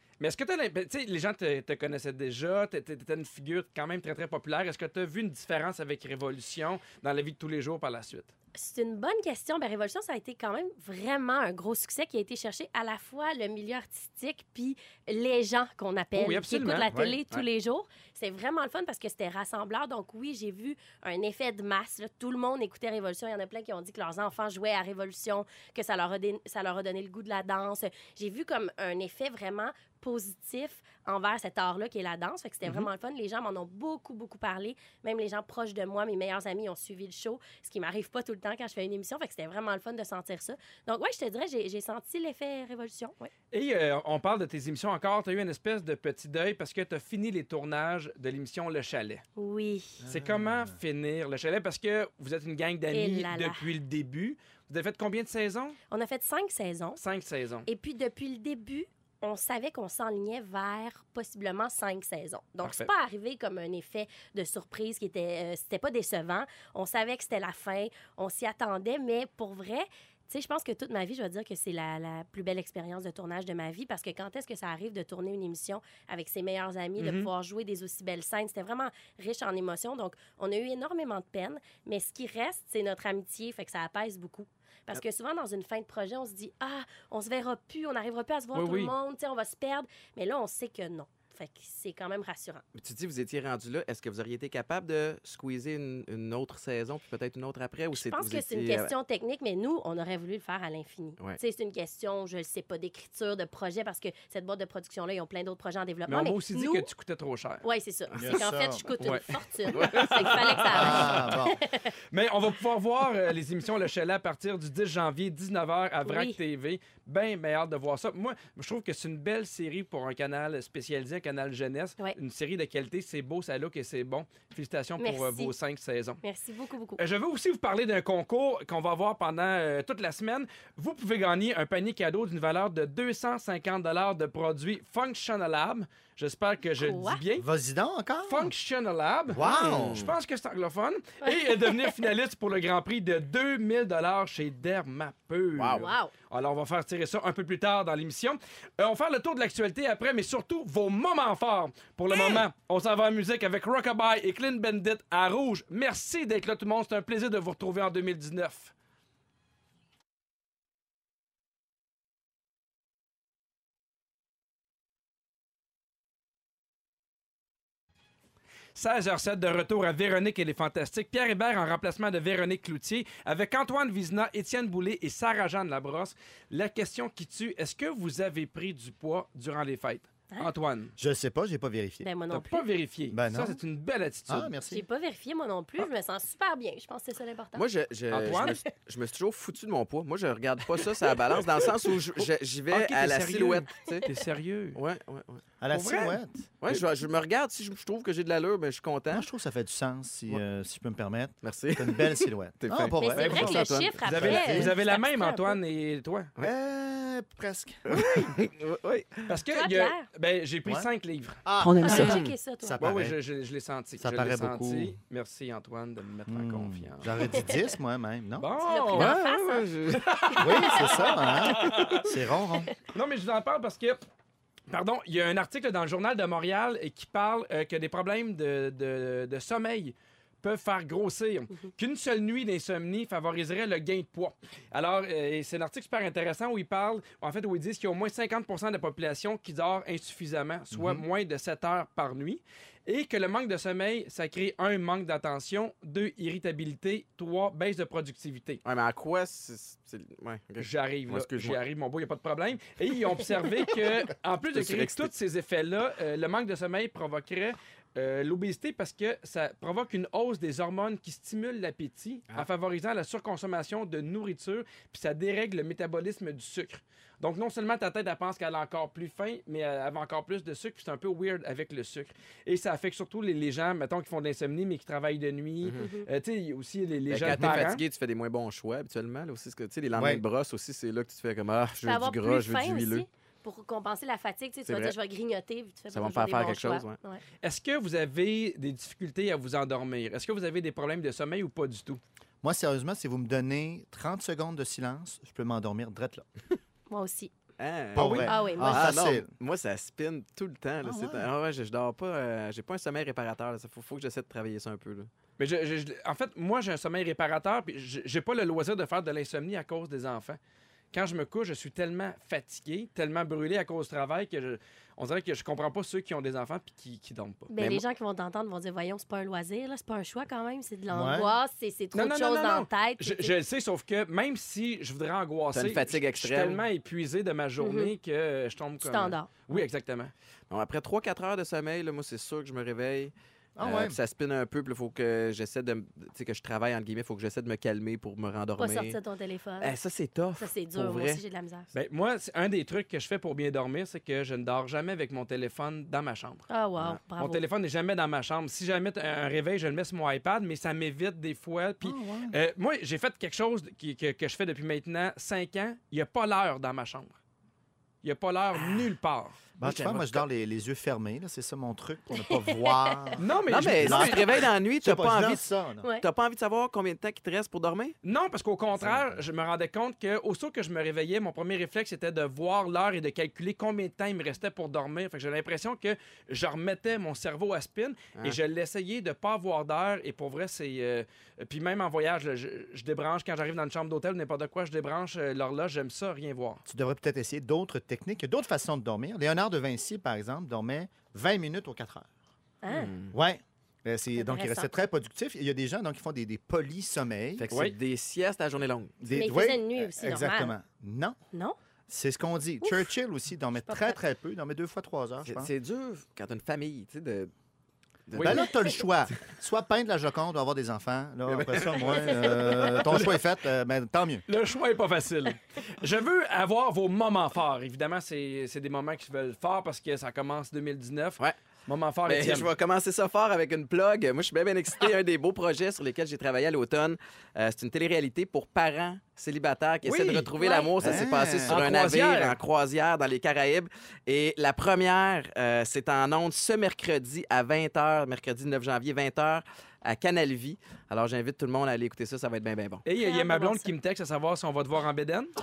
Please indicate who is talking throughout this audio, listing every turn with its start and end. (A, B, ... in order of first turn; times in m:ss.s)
0:00.2-0:08.3 A
0:08.6-0:43.3 B
0:16.2-0:16.9 A
0:16.9-0:17.2 C
0:43.5-0:49.2 A
0:49.4-0:50.0 B
0:50.0-0:50.8 C
0:50.1-0:55.8 A
0:52.9-0:53.7 B
0:55.9-0:57.0 B
0:57.0-0:57.7 A
0:57.7-1:32.6 B
1:02.6-1:02.9 A
1:17.0-1:17.3 A
1:28.5-1:28.9 A
1:32.8-1:38.9 D
1:37.9-1:46.9 B
1:46.1-1:47.6 A
1:47.6-1:51.9 B
1:48.2-1:48.9 C
1:49.7-1:51.2 D
1:49.8-1:51.4 A
1:50.7-1:51.6 C
1:52.1-2:06.2 A
1:56.0-1:56.4 B
2:05.0-2:05.5 B
2:06.2-2:07.0 B
2:07.0-2:17.5 A
2:16.8-2:17.2 B
2:17.4-2:18.5 C
2:18.3-2:38.7 A
2:19.3-2:20.1 C
2:19.4-2:20.1 D
2:21.2-2:22.0 B
2:25.6-2:25.9 D
2:25.7-2:26.1 B
2:32.1-2:32.4 B
2:48.8-3:01.0 A
3:01.0-3:02.1 C
3:02.0-3:02.6 B
3:02.3-3:04.5 A
3:03.1-3:03.6 C
3:04.3-3:04.8 C
3:04.7-3:07.6 B
3:07.6-3:14.1 D
3:08.1-3:08.6 A
3:12.7-3:14.8 A
3:14.8-3:15.4 D
3:15.6-3:16.5 C
3:15.7-3:16.2 A
3:16.6-3:19.3 D
3:19.1-3:24.7 C
3:21.4-3:24.0 D
3:23.0-3:25.6 B
3:24.0-3:26.3 A
3:26.4-3:28.3 C
3:27.9-3:29.3 D
3:29.3-3:31.4 A
3:29.5-3:30.1 B
3:31.4-3:33.2 C
3:31.6-3:32.3 D
3:31.8-3:32.8 B
3:32.8-3:37.5 A
3:34.0-3:35.0 C
3:36.3-3:38.5 C
3:38.4-3:39.2 A
3:38.6-3:41.8 B
3:38.9-3:40.1 D
3:39.9-3:42.1 A
3:40.4-3:42.7 C
3:42.8-3:44.0 A
3:44.7-4:08.6 A
4:08.6-4:11.6 D
4:10.6-4:37.8 A
4:14.5-4:15.1 D
4:35.8-4:36.1 B
4:37.1-4:43.1 D
4:39.9-4:40.2 C
4:41.8-4:47.2 B
4:44.7-4:44.9 D
4:45.9-4:47.0 D
4:47.4-4:52.0 A
4:52.4-4:56.3 C
4:56.9-4:57.3 B
4:57.6-5:05.1 D
4:58.0-4:58.3 A
4:58.0-4:59.3 C
4:58.3-4:58.9 B
5:00.8-5:01.3 C
5:05.4-5:10.4 A
5:10.9-5:17.5 A
5:17.5-5:23.3 B
5:17.6-5:17.8 D
5:20.9-5:21.3 C
5:21.9-5:30.1 A
5:25.5-5:26.6 D
5:27.6-5:27.9 B
5:28.8-5:29.3 B
5:30.5-5:39.0 D
5:33.6-5:34.0 C
5:38.6-5:39.8 B
5:39.6-5:41.2 D
5:40.4-5:41.7 B
5:41.7-5:46.5 A
5:46.5-5:47.4 B
5:47.2-5:57.1 A
5:51.8-5:52.4 C
5:58.0-6:00.2 A
5:59.6-6:03.3 C
6:02.2-6:03.1 B
6:03.2-6:04.4 A
6:03.5-6:05.4 D
6:03.8-6:05.8 C
6:06.0-6:08.0 D
6:08.0-6:26.6 A
6:08.8-6:09.1 D
6:26.7-6:32.1 C
6:32.6-6:32.9 B
6:32.7-6:33.2 D
6:33.1-6:37.5 C
6:34.2-6:34.7 B
6:37.4-6:39.0 D
6:39.0-6:41.2 C
6:39.1-6:40.6 B
6:41.3-6:41.6 B
6:41.9-6:45.5 C
6:42.6-6:42.9 B
6:43.7-6:44.0 B
6:45.2-6:47.3 D
6:48.1-6:48.8 D
6:48.2-6:48.4 A
6:48.2-6:54.2 C
6:51.3-6:53.1 D
6:52.8-6:53.1 A
6:54.3-7:02.5 A
7:02.1-7:22.8 D
7:09.8-7:10.3 A
7:10.4-7:11.0 B
7:10.8-7:11.6 C
7:11.5-7:12.4 A
7:22.8-7:25.3 A
7:23.0-7:23.7 B